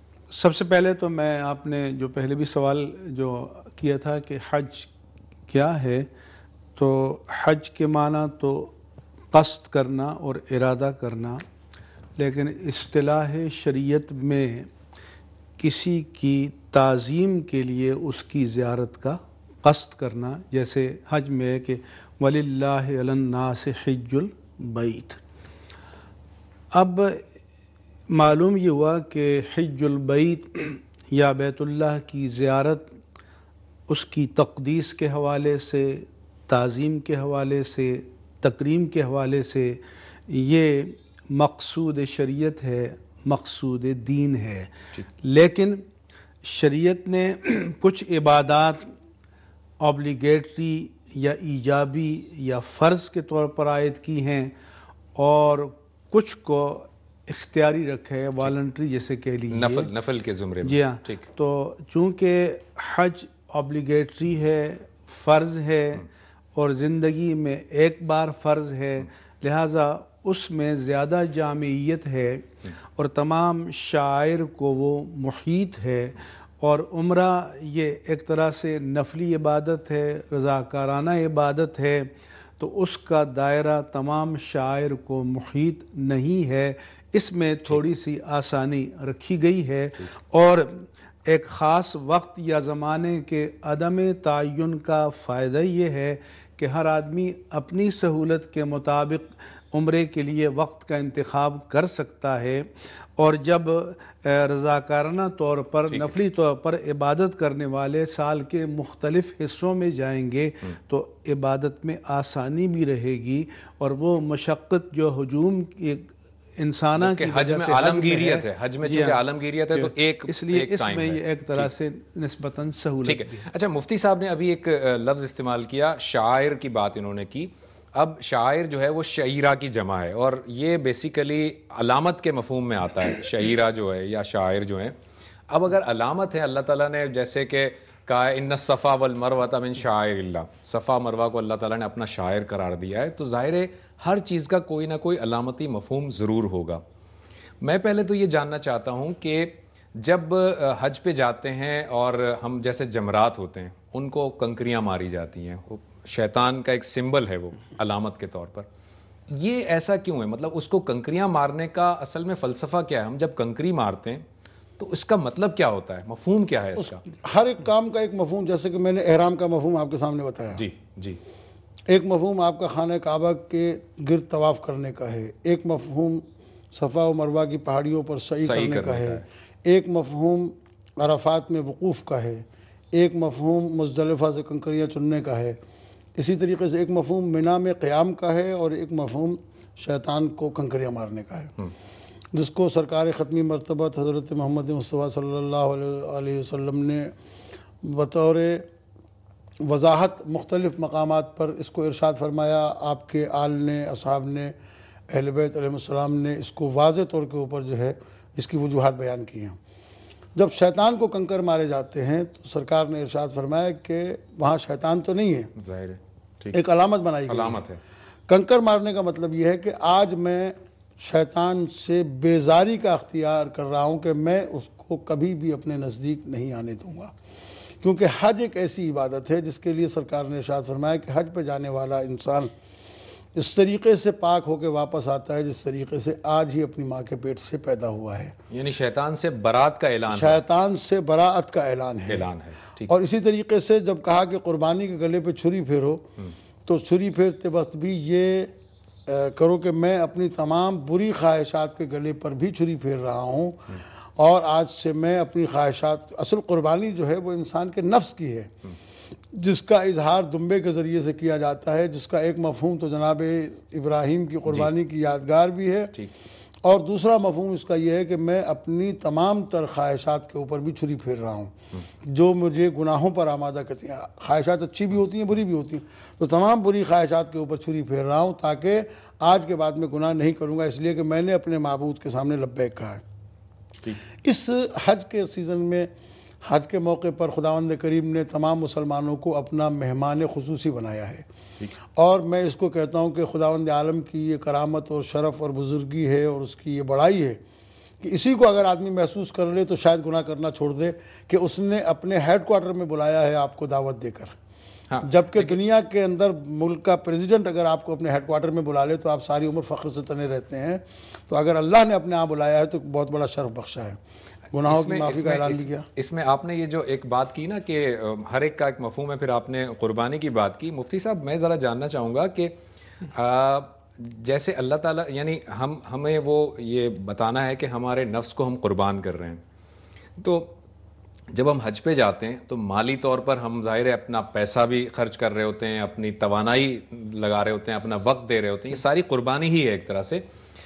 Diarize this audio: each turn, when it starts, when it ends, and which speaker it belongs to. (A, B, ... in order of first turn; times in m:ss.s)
0:00.3-0:04.9 A
0:05.5-0:06.1 A
0:06.8-0:08.8 A
0:09.3-0:11.4 A
0:12.2-0:14.7 A
0:15.6-0:25.2 A
0:26.7-0:27.3 A
0:28.1-0:33.0 A
0:33.9-0:45.8 A
0:46.4-0:48.9 A
0:49.8-0:54.6 A
0:55.2-0:59.9 A
0:59.5-1:01.3 B
1:00.6-1:59.2 A
1:45.8-1:46.1 B
1:57.0-2:01.8 B
1:59.8-2:03.4 A
2:03.0-2:15.0 B
2:15.5-2:26.8 B
2:27.6-2:38.7 B
2:39.3-2:44.3 B
2:44.8-2:47.0 B
2:46.8-2:50.6 C
2:50.5-2:51.2 B
2:51.9-3:05.6 C
2:58.4-2:59.2 B
3:06.2-3:11.5 C
3:12.3-3:17.1 C
3:17.8-3:18.6 C
3:19.6-3:24.5 C
3:25.1-3:29.6 C
3:30.4-3:35.5 C
3:35.6-3:36.6 B
3:36.5-3:37.6 C
3:37.3-3:37.8 B
3:38.3-3:47.1 C
3:47.8-3:52.5 C
3:53.4-3:58.3 C
3:58.5-4:00.4 B
4:00.1-4:02.3 C
4:02.1-4:02.9 B
4:02.9-4:06.0 C
4:06.7-4:08.5 C
4:09.1-4:18.5 C
4:19.3-4:26.0 C
4:26.6-4:31.5 C
4:32.1-4:43.0 C
4:44.2-4:45.9 C
4:46.4-4:51.2 C
4:52.0-4:57.4 C
4:58.0-5:04.3 C
5:04.9-5:05.6 B
5:05.0-5:14.0 C
5:14.5-5:15.9 C
5:14.7-5:22.6 B
5:23.1-5:29.4 B
5:30.2-5:30.6 B
5:31.3-5:40.3 B